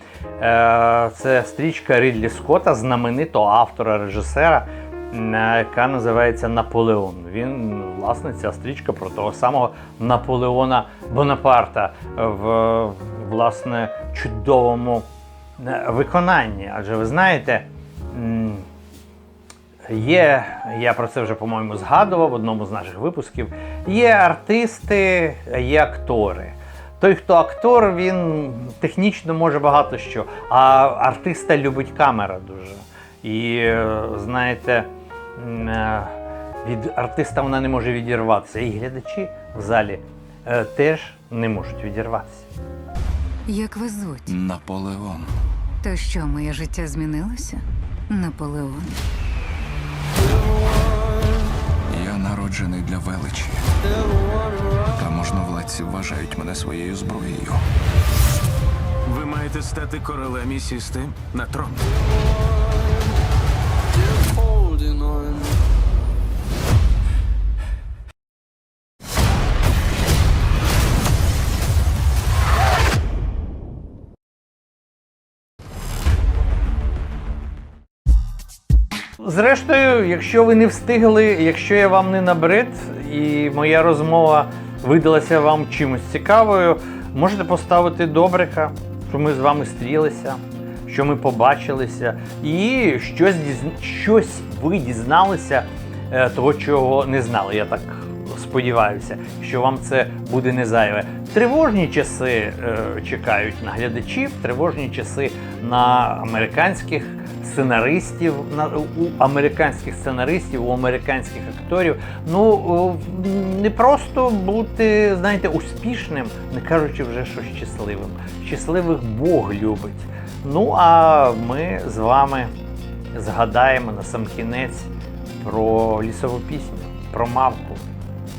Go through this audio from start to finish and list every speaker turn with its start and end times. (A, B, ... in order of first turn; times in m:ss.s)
0:00.4-0:15.1 A
0:15.6-0:18.7 A
0:19.9-0:42.5 A
0:43.5-0:44.3 B
0:44.3-0:45.3 C
0:45.8-0:49.0 B
0:51.9-0:53.6 C
0:54.9-0:57.6 C
0:59.1-1:01.9 D
1:19.2-2:02.5 A
2:03.1-2:07.8 A